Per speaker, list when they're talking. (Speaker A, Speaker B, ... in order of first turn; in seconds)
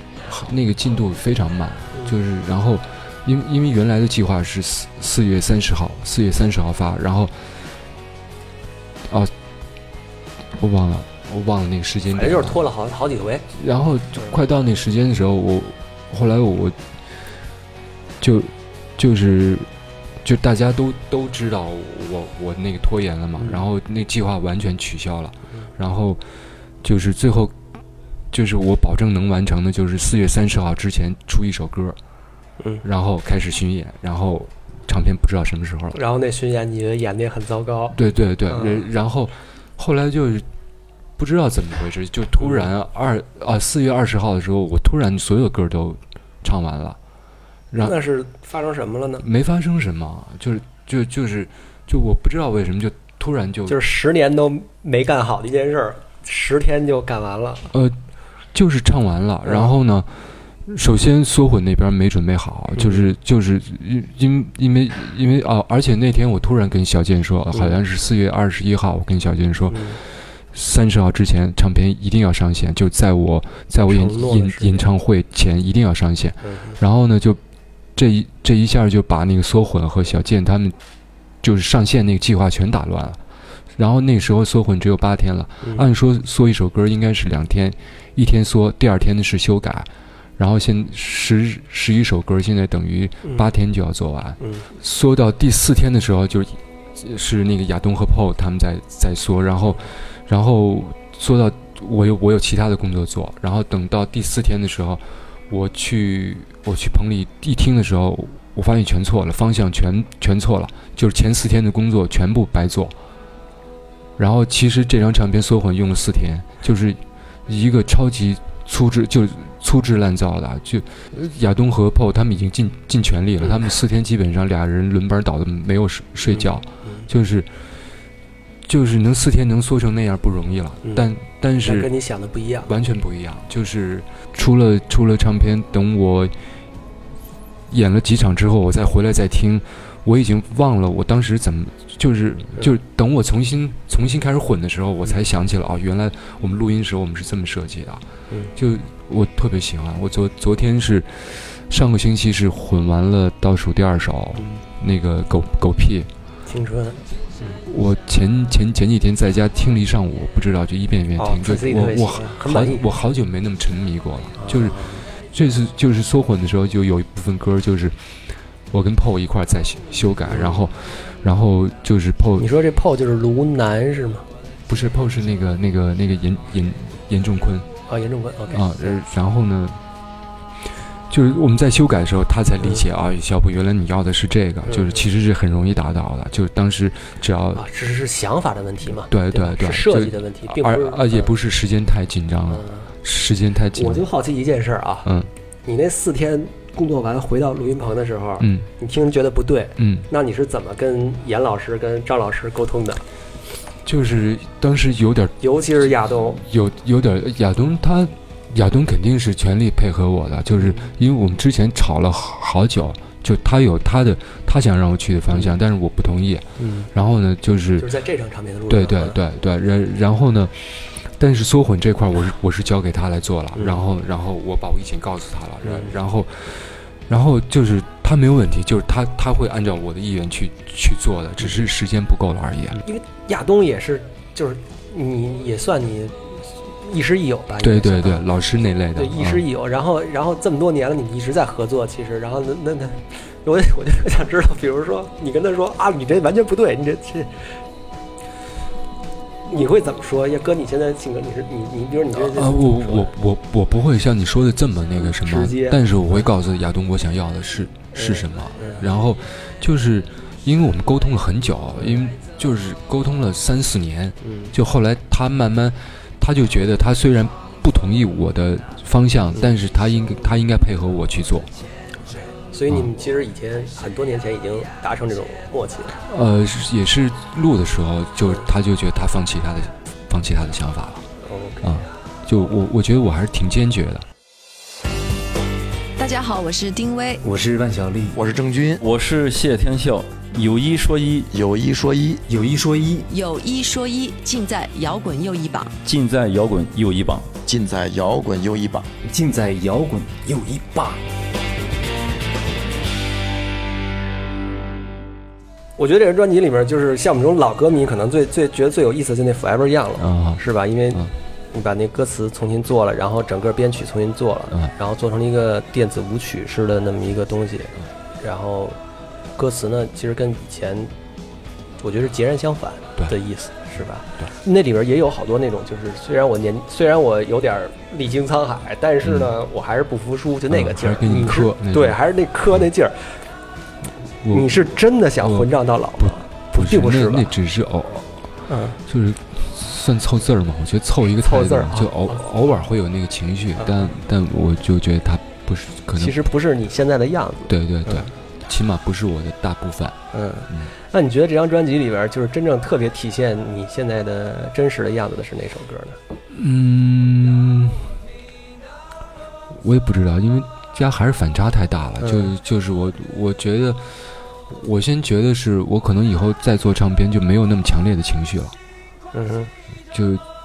Speaker A: 0.2-7.5, 10.5-12.6, 13.5-16.8, 18.2-19.7, 20.2-26.2, 26.8-27.5, 28.3-32.0, 32.8-36.0, 37.9-40.5, 41.2-47.0, 47.7-48.0, 49.2-53.8, 57.7-58.0, 58.5-77.4, 77.9-80.8, 81.4-83.2, 83.8-112.9, 114.2-127.5, 128.6-131.9, 132.7-136.3, 137.7-156.1, 157.6-167.9, 168.7-172.5, 174.7-177.7, 178.5-179.8, 181.1-187.7, 188.9-194.1, 195.0-195.3, 198.4-198.7, 199.8-200.1, 203.8-205.8, 206.3-217.9, 218.7-232.8, 237.6-239.4, 252.1-271.5, 276.0-281.1, 281.6-284.1, 310.0-310.4, 329.0-329.3, 330.5-332.0, 334.2-338.3, 338.8-346.2, 347.5-350.0, 356.3-358.0, 359.5-368.6, 369.9-370.2
Speaker B: 12.1-13.4, 23.4-23.6, 35.9-38.8, 47.8-49.2, 53.7-57.7, 59.4-59.7, 62.7-63.1, 67.5-67.8, 69.7-70.0, 73.8-74.9, 76.4-76.8, 93.2-93.5, 94.4-94.7, 126.3-127.1, 131.6-132.7, 154.3-154.6, 156.4-157.6, 161.2-162.8, 164.4-165.1, 170.3-170.7, 172.4-174.3, 177.9-179.0, 184.7-185.0, 187.5-191.3, 192.5-192.9, 193.7-195.1, 195.6-203.0, 205.4-206.4, 210.6-210.9, 216.6-216.9, 217.8-219.2, 225.6-225.9, 232.8-238.3, 238.9-247.6, 249.5-253.1, 255.0-256.2, 257.9-258.8, 264.2-264.5, 272.5-276.0, 281.2-281.7, 305.8-318.8, 319.3-320.9, 321.8-333.2, 334.3-337.3, 338.5-338.8, 341.2-342.3, 343.6-343.9, 345.9-348.1, 350.1-356.0, 362.0-362.3, 369.1-369.5
Speaker C: 286.0-287.2, 293.1-295.8
Speaker D: 287.2-288.2, 292.3-293.1, 299.0-301.0
Speaker E: 288.1-288.8, 291.3-292.2, 297.4-298.9
Speaker F: 288.8-291.3, 295.8-297.3